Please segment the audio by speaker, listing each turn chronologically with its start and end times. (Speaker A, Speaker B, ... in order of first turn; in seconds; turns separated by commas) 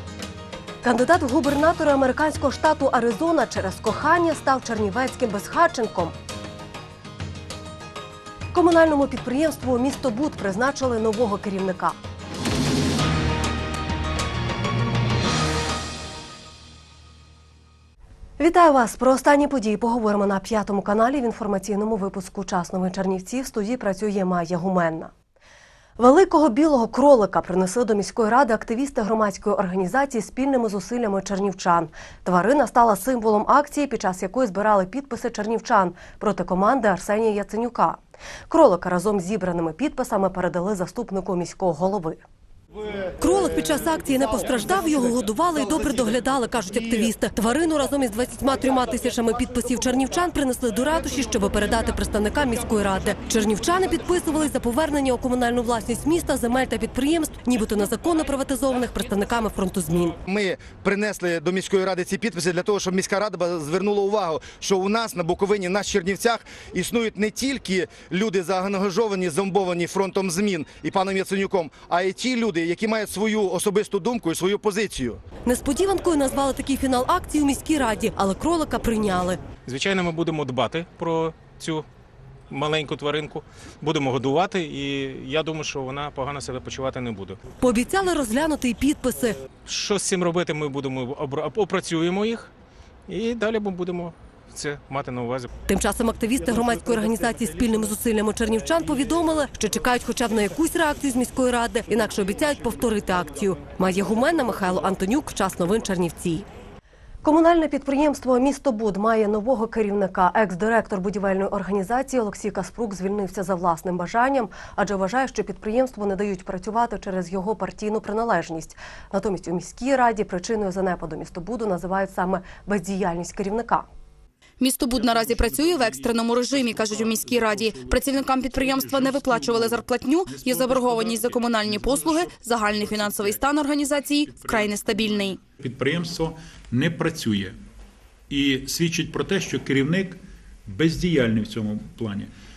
Speaker A: 0.8-6.2, Speaker A: 8.5-12.0, Speaker A: 18.4-25.1, Speaker A: 26.0-42.2, Speaker A: 43.2-60.2, Speaker B: 60.3-75.2, Speaker A: 75.5-79.4, Speaker C: 79.7-81.9, Speaker C: 82.5-87.4, Speaker A: 87.6-89.4, Speaker C: 89.7-92.5, Speaker C: 93.1-95.5, Speaker A: 95.7-106.5, Speaker A: 107.2-123.9, Speaker D: 124.6-135.4, Speaker E: 124.9-133.4, Speaker E: 134.3-135.0, Speaker E: 135.6-137.6, Speaker E: 138.3-142.3